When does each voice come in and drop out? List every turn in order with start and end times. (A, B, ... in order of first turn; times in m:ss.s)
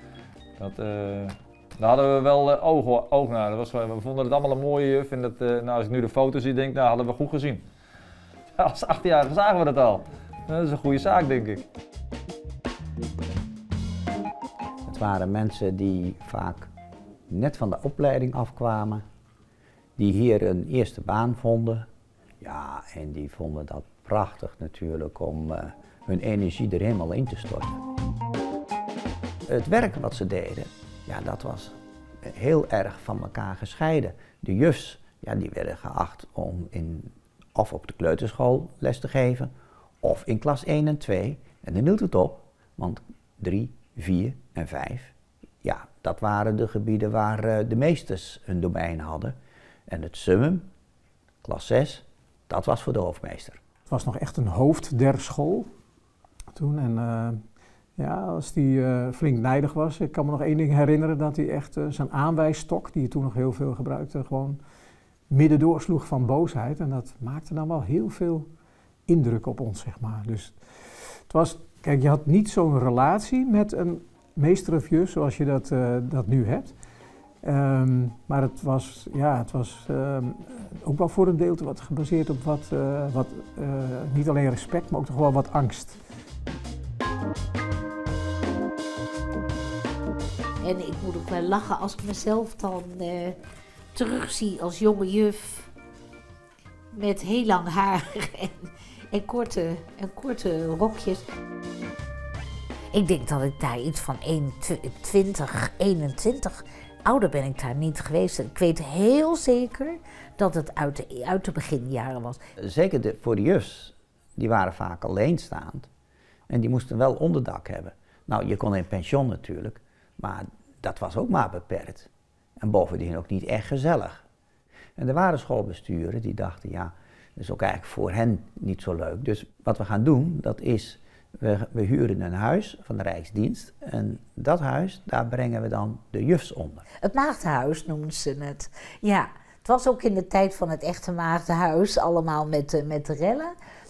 0:00.6-0:07.6 A
0:08.6-0:11.6 A
0:14.9-0:16.7 B
0:17.3-0:19.0 B
0:20.0-0:21.9 B
0:22.4-0:27.8 B
0:29.5-0:49.4 B
0:49.9-0:50.7 B
0:51.4-0:53.6 B
0:53.9-0:55.7 C
0:56.6-0:57.4 C
0:58.0-1:04.6 C
1:05.3-1:08.5 C
1:09.1-1:10.6 C
1:11.3-1:16.8 C
1:17.4-1:26.0 C
1:30.6-1:33.4 D
1:33.9-1:35.7 D
1:36.9-1:41.2 D
1:42.9-1:52.4 D
1:52.6-1:55.9 B
1:56.5-2:02.1 B
2:02.6-2:04.2 B
2:05.0-2:16.9 B
2:17.0-2:23.5 D